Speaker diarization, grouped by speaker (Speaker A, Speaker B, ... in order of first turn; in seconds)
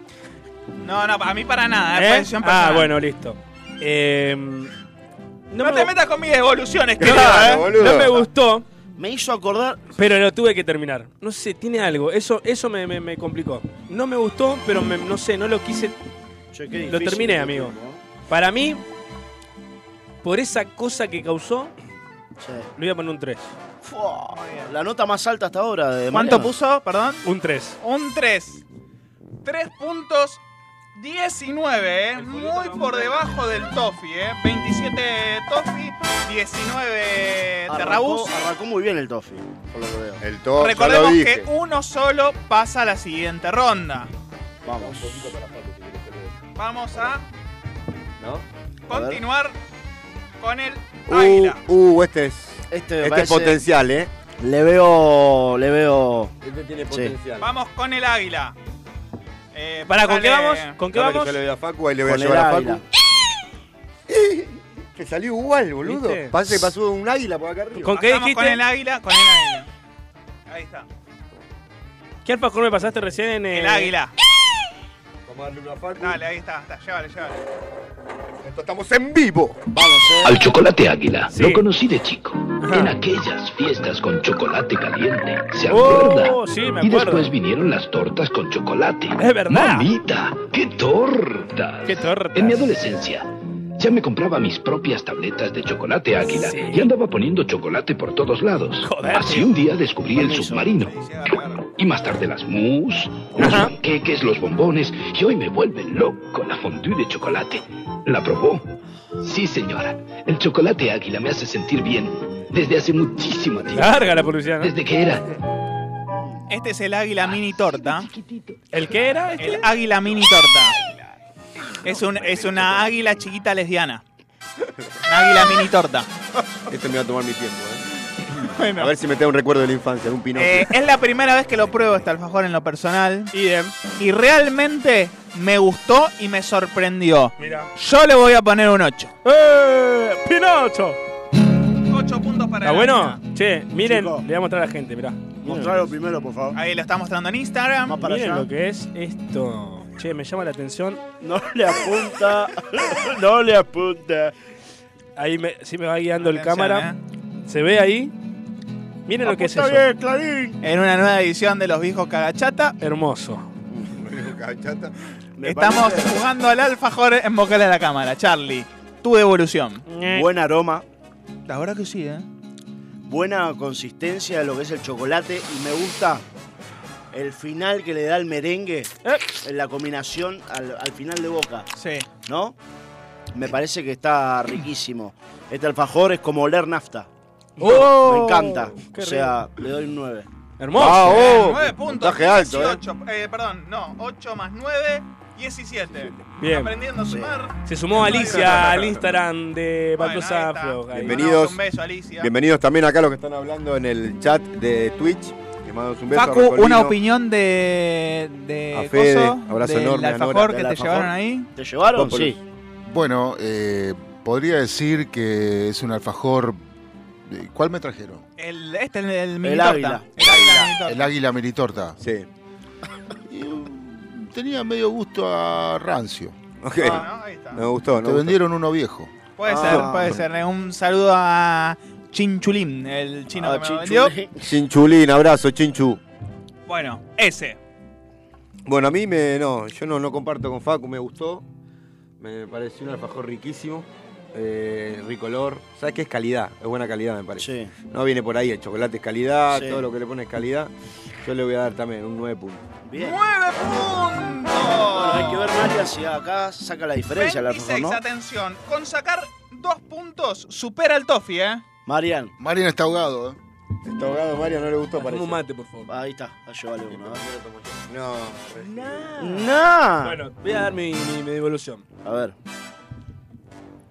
Speaker A: 0.8-2.9, 5.6-7.7, 24.3-24.7, 26.1-27.2, 27.8-28.6, 29.4-30.4, 30.9-38.4, 40.6-44.1, 46.5-47.2, 48.9-49.5, 50.4-51.6, 57.4-58.5, 59.5-60.8, 67.9-69.7, 70.5-70.8, 73.5-74.1, 76.0-77.4, 100.7-101.6, 116.5-118.0, 119.4-120.8, 121.8-124.0, 125.0-126.1, 128.5-128.9, 130.3-133.3, 133.9-139.1, 141.9-143.2, 146.5-148.0, 156.2-157.0, 160.6-162.8, 165.4-169.8, 171.5-172.2, 181.8-182.1, 191.1-198.7, 200.0-202.3, 206.1-211.5, 218.4-221.1, 226.8-227.6, 229.4-234.1, 236.7-237.6, 253.0-255.5, 257.1-261.6
Speaker B: 1.9-4.7, 5.5-5.9, 7.0-8.6, 10.0-15.9, 16.9-17.7, 18.3-18.8, 20.2-21.7, 22.8-23.5, 27.2-27.8, 32.1-33.5, 59.9-61.4, 65.8-66.6, 67.8-68.6, 72.2-73.9, 81.3-81.6, 82.6-83.0, 85.7-87.3, 89.2-89.9, 91.8-92.7, 96.3-96.9, 98.8-99.5, 103.4-103.7, 113.7-114.7, 118.7-119.7, 133.3-133.7, 137.4-137.7, 139.2-141.0, 142.6-145.9, 148.0-151.0, 155.2-156.9, 157.5-158.1, 159.1-159.9, 162.8-163.5, 169.9-170.3, 187.6-189.4, 190.6-191.4, 196.4-196.7, 197.7-201.2, 264.9-265.9, 268.6-271.8
Speaker C: 7.0-8.2, 40.2-41.5, 44.6-46.4, 48.2-48.4, 51.1-54.1, 56.4-57.5, 60.9-62.8, 64.1-67.9, 75.2-76.2, 78.4-79.8, 122.2-122.8, 126.7-127.8, 128.8-130.7, 163.8-164.9, 190.8-192.8, 198.1-199.0, 200.9-201.6, 202.2-206.9, 208.7-210.6, 211.9-212.4, 222.0-222.3, 226.6-228.4, 234.4-236.0, 238.7-241.4, 242.2-250.7, 251.2-252.7, 263.8-265.4, 266.9-269.1
Speaker D: 9.0-9.9, 16.5-18.0, 22.4-22.7, 23.8-26.5, 37.7-40.2, 44.6-45.2, 48.9-49.2, 52.7-53.6, 54.4-56.3, 56.9-57.1, 62.0-62.8, 79.7-80.4, 100.1-100.8, 116.1-116.4, 143.8-144.2, 145.4-146.6, 147.9-148.5, 151.2-154.3, 159.2-160.5, 165.4-166.2, 170.1-170.8, 173.1-176.2, 177.1-181.7, 182.2-182.6, 183.3-187.1, 187.6-190.3, 197.1-197.3, 210.4-212.4, 219.4-220.6, 229.4-230.2, 233.3-234.5, 247.4-247.7, 249.5-249.8, 252.8-253.2, 254.9-258.0, 261.9-262.3, 265.9-267.2, 269.2-270.2, 272.0-272.3
Speaker E: 80.2-100.9, 101.8-108.6, 109.2-115.3
Speaker F: 212.9-216.6, 217.2-218.2, 220.8-222.0, 223.3-226.3, 228.0-229.1, 262.4-263.4